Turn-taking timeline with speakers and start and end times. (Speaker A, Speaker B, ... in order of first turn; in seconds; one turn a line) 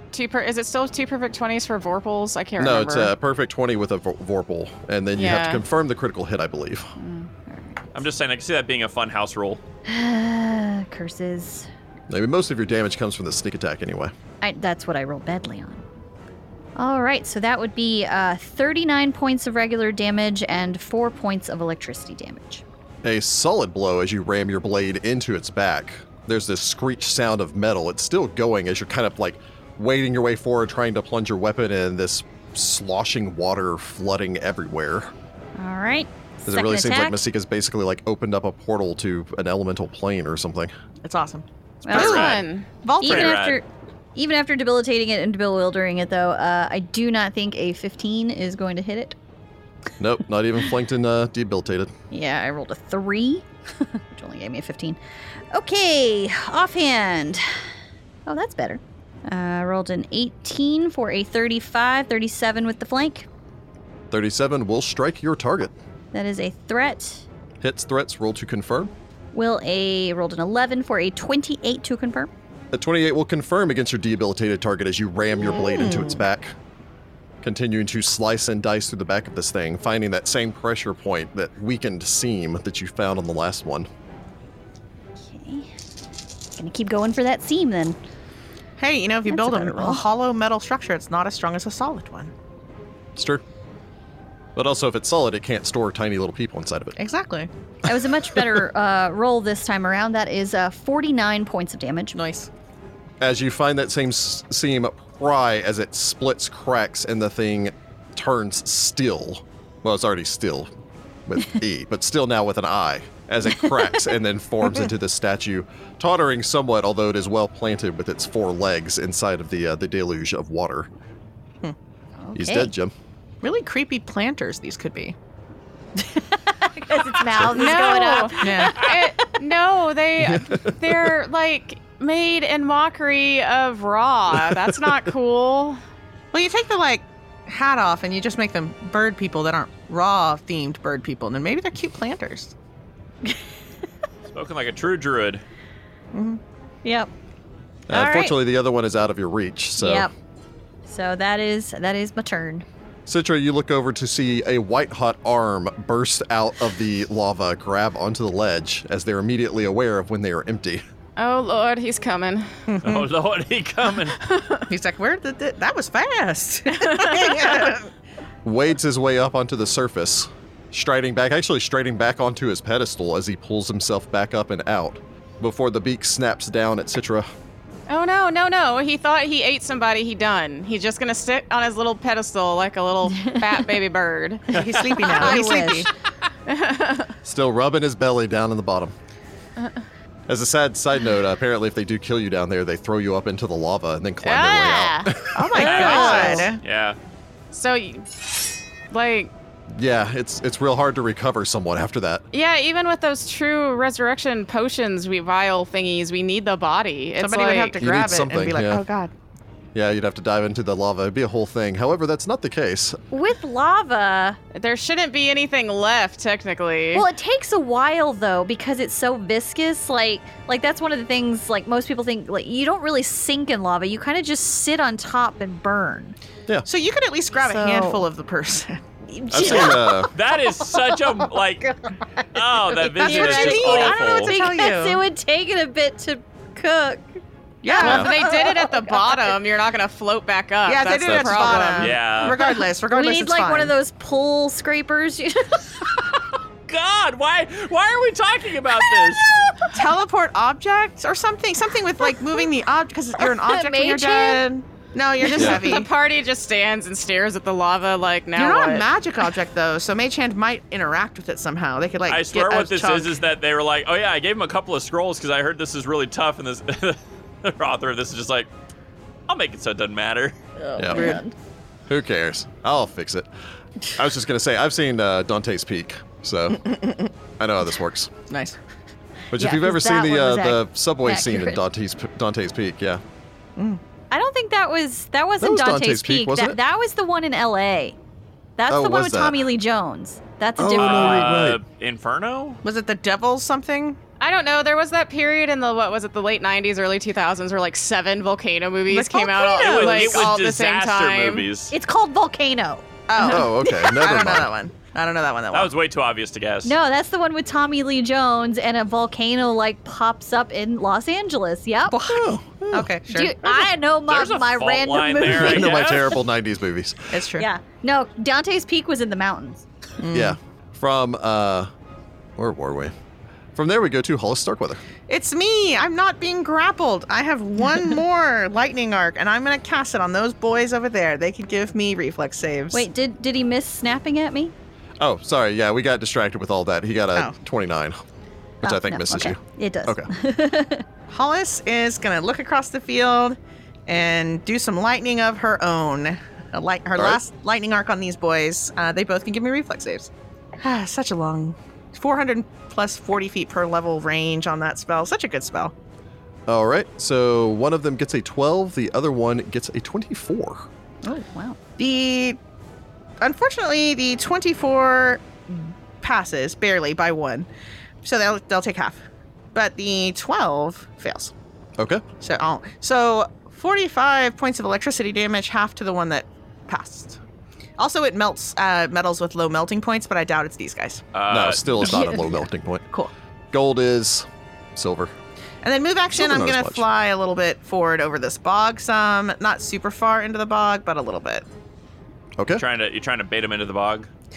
Speaker A: 0.1-3.1
Speaker B: 2.6-6.9
Speaker A: 5.2-5.6
Speaker C: 7.0-8.0
Speaker D: 7.9-9.6
Speaker C: 9.8-11.7
Speaker B: 12.1-14.1
Speaker C: 14.4-15.8
Speaker C: 16.8-22.6
Speaker B: 23.0-35.1
Speaker C: 35.6-37.2
Speaker B: 36.5-40.7
Speaker E: 41.0-43.4
Speaker C: 41.8-42.4
Speaker A: 41.9-42.7
Speaker C: 43.0-49.2
Speaker D: 43.0-43.6
Speaker B: 50.0-51.9
Speaker C: 52.1-55.0
Speaker C: 55.5-57.6
Speaker C: 58.3-63.3
Speaker B: 64.1-65.7
Speaker C: 66.1-67.2
Speaker B: 67.6-68.9
Speaker C: 69.3-72.3
Speaker B: 72.7-76.5
Speaker E: 75.5-76.2
Speaker B: 77.4-83.9
Speaker C: 85.2-85.7
Speaker C: 86.6-88.0
Speaker E: 88.8-92.3
Speaker C: 89.2-90.0
Speaker B: 93.2-93.4
Speaker B: 94.5-97.0
Speaker E: 97.0-97.5
Speaker C: 97.8-102.2
Speaker E: 102.1-102.5
Speaker B: 103.2-110.7
Speaker B: 111.3-120.9
Speaker C: 122.2-122.7
Speaker B: 122.3-122.9
Speaker E: 123.4-125.2
Speaker C: 126.1-129.3
Speaker A: 127.5-135.8
Speaker E: 128.4-128.9
Speaker B: 130.2-131.2
Speaker B: 134.3-134.8
Speaker E: 136.3-142.5
Speaker D: 144.3-145.4
Speaker E: 146.1-146.4
Speaker C: 146.8-147.1
Speaker B: 147.9-150.1
Speaker C: 147.9-148.3
Speaker C: 149.8-150.1
Speaker C: 150.8-152.6
Speaker B: 153.1-160.8
Speaker A: 161.2-162.7
Speaker E: 162.7-163.1
Speaker D: 162.8-164.2
Speaker A: 164.2-164.7
Speaker E: 164.7-167.9
Speaker A: 166.8-167.2
Speaker B: 168.4-177.3
Speaker A: 177.9-184.6
Speaker E: 184.5-185.9
Speaker D: 184.6-185.2
Speaker C: 185.0-185.9
Speaker A: 186.5-187.1
Speaker B: 187.2-188.9
Speaker B: 190.3-196.1
Speaker A: 194.2-195.1
Speaker E: 195.3-196.6
Speaker C: 195.6-196.5
Speaker D: 195.6-197.0
Speaker A: 197.5-198.2
Speaker A: 198.9-199.3
Speaker B: 199.7-202.2
Speaker A: 202.3-207.8
Speaker E: 207.2-209.1
Speaker B: 207.8-208.8
Speaker B: 209.7-213.0
Speaker C: 213.1-214.4
Speaker A: 214.5-217.1
Speaker C: 216.9-226.2
Speaker E: 226.7-228.8
Speaker C: 227.4-228.1
Speaker C: 229.1-230.1
Speaker B: 229.3-230.1
Speaker D: 229.5-231.7
Speaker C: 230.7-239.3
Speaker D: 232.3-234.3
Speaker E: 232.8-235.0
Speaker E: 237.6-238.1
Speaker A: 237.7-241.9
Speaker B: 237.8-238.1
Speaker E: 240.7-243.7
Speaker B: 241.0-241.7
Speaker D: 241.8-242.4
Speaker C: 242.2-246.1
Speaker D: 246.7-249.3
Speaker C: 248.9-249.7
Speaker E: 249.7-255.9
Speaker C: 253.2-254.4
Speaker C: 255.2-255.8
Speaker B: 255.3-255.6
Speaker A: 255.3-258.9
Speaker E: 258.3-263.1
Speaker D: 262.1-268.5
Speaker D: 269.3-270.3
Speaker C: 270.7-271.3
Speaker B: 270.8-271.2
Speaker E: 270.8-271.2
Speaker B: 271.9-273.3
Speaker B: 273.9-276.8
Speaker E: 276.6-277.1
Speaker B: 277.4-278.1
Speaker E: 278.3-278.6
Speaker B: 279.3-283.0
Speaker C: 279.3-281.6
Speaker C: 284.1-287.9
Speaker B: 285.4-286.6
Speaker C: 288.6-291.3
Speaker B: 288.7-289.4
Speaker B: 290.6-291.6
Speaker D: 290.6-292.6
Speaker E: 292.6-294.0
Speaker A: 294.2-301.5
Speaker E: 298.9-300.4
Speaker D: 299.6-301.7
Speaker C: 301.7-303.5
Speaker E: 303.1-305.7
Speaker B: 303.2-304.5
Speaker D: 305.5-306.7
Speaker C: 306.6-312.2
Speaker E: 312.0-313.7
Speaker B: 312.0-312.9
Speaker C: 313.1-315.9
Speaker D: 314.1-316.2
Speaker B: 315.2-317.1
Speaker E: 317.1-317.5
Speaker C: 317.4-319.6
Speaker E: 320.0-320.4
Speaker B: 320.1-321.7
Speaker B: 322.4-322.9
Speaker B: 323.5-324.8
Speaker E: 325.1-332.9
Speaker C: 332.7-334.5
Speaker B: 335.0-338.0
Speaker B: 338.6-340.1
Speaker C: 338.6-340.8
Speaker E: 341.1-350.1
Speaker E: 350.6-355.7
Speaker B: 356.5-360.7
Speaker C: 361.0-361.6
Speaker E: 361.8-362.4
Speaker E: 363.2-367.5
Speaker E: 368.0-369.0
Speaker E: 369.5-371.3
Speaker B: 371.8-372.0
Speaker E: 372.2-377.2
Speaker E: 377.8-381.0
Speaker D: 381.1-381.8
Speaker B: 381.3-382.8
Speaker E: 381.8-382.2
Speaker C: 381.8-382.1
Speaker B: 383.5-385.1
Speaker E: 385.6-391.4
Speaker B: 386.1-386.8
Speaker B: 392.4-392.6
Speaker D: 392.5-394.1